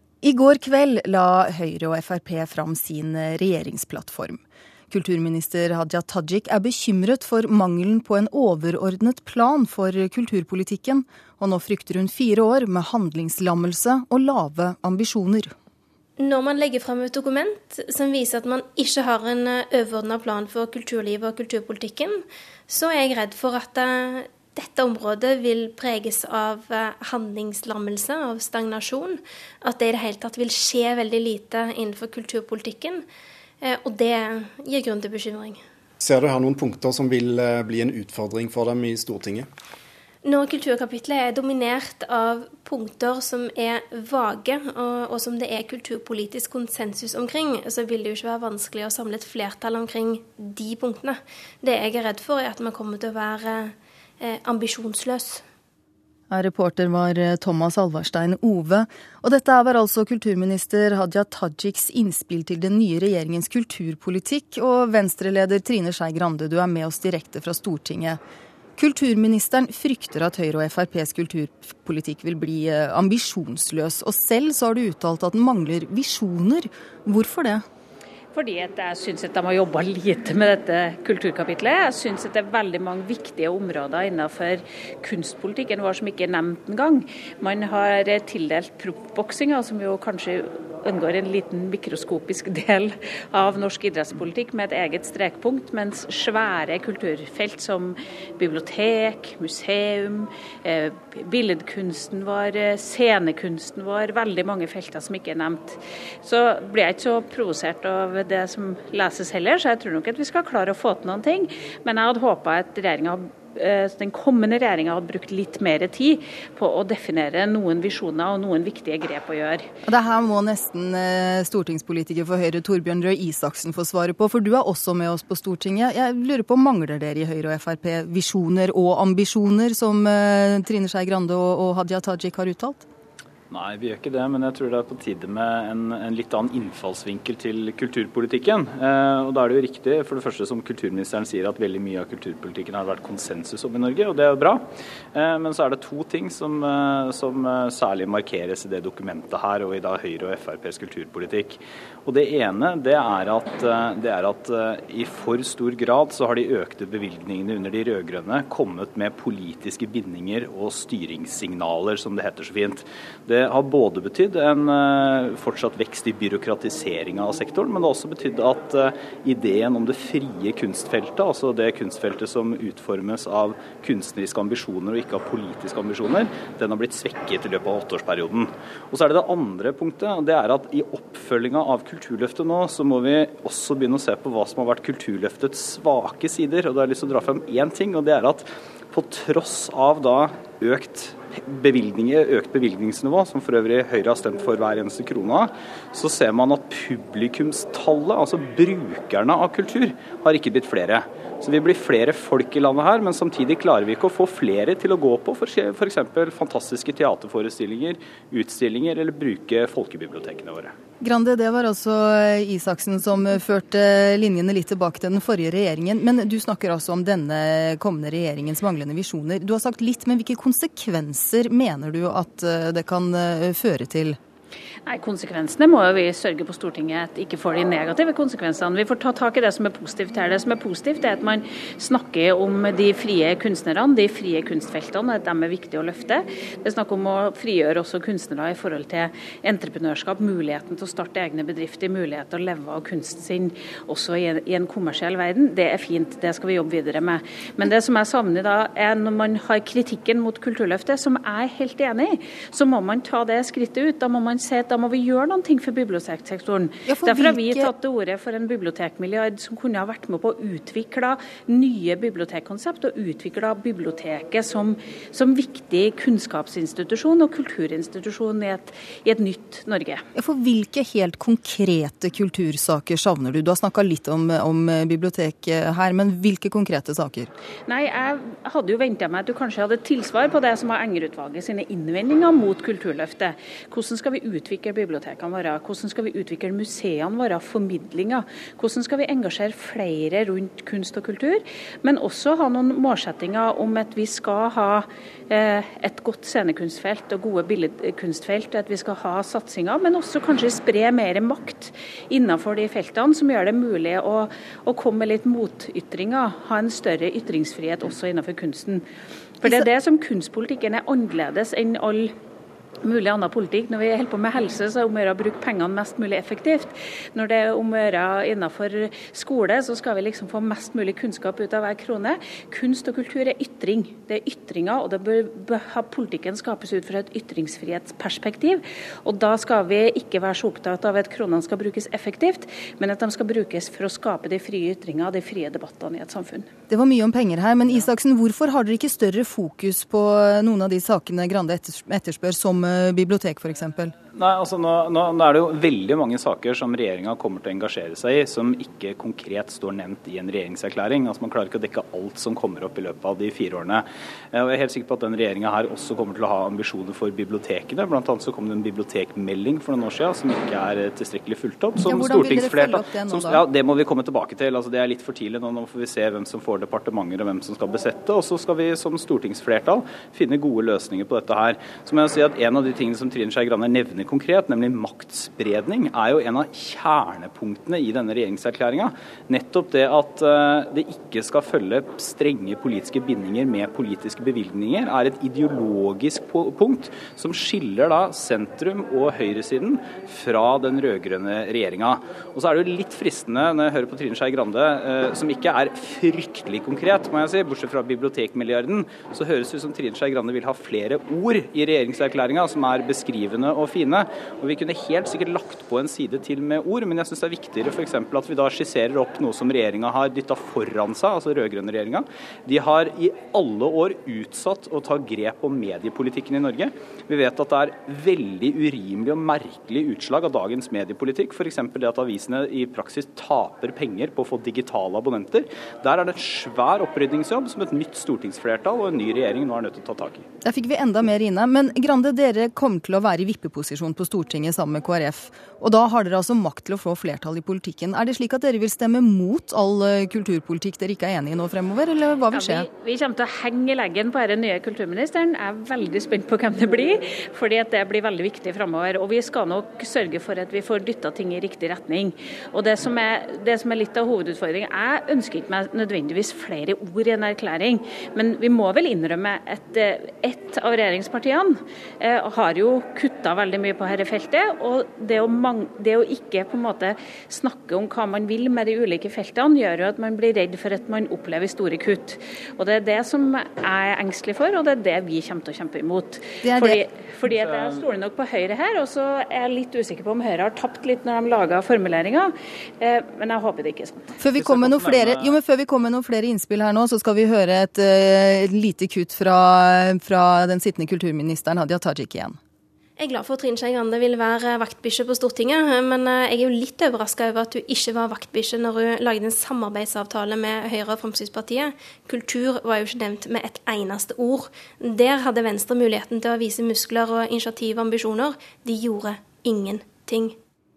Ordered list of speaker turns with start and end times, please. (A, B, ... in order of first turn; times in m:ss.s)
0:00.2-0:15.5 A
0:16.2-0:33.0 B
0:33.6-0:35.6 B
0:36.0-0:39.5 C
0:40.2-0:55.4 B
0:56.3-1:08.2 A
1:08.8-1:17.6 A
1:18.3-1:59.7 D
1:59.8-2:12.9 A
2:13.5-3:30.7 E
3:31.0-3:44.2 A
3:44.8-4:30.0 D
4:16.9-4:17.7 A
4:30.2-4:37.3 A
4:37.7-5:08.8 D
5:09.6-5:12.1 D
5:12.8-5:36.5 D
5:36.7-5:43.9 A
5:44.1-7:10.3 E
6:01.8-6:03.4 A
7:10.4-7:22.7 A
7:22.8-8:04.1 D
7:56.4-7:56.8 A
7:57.2-7:57.8 E
8:04.2-8:12.4 A
8:04.4-8:05.4 E
8:13.0-8:30.4 B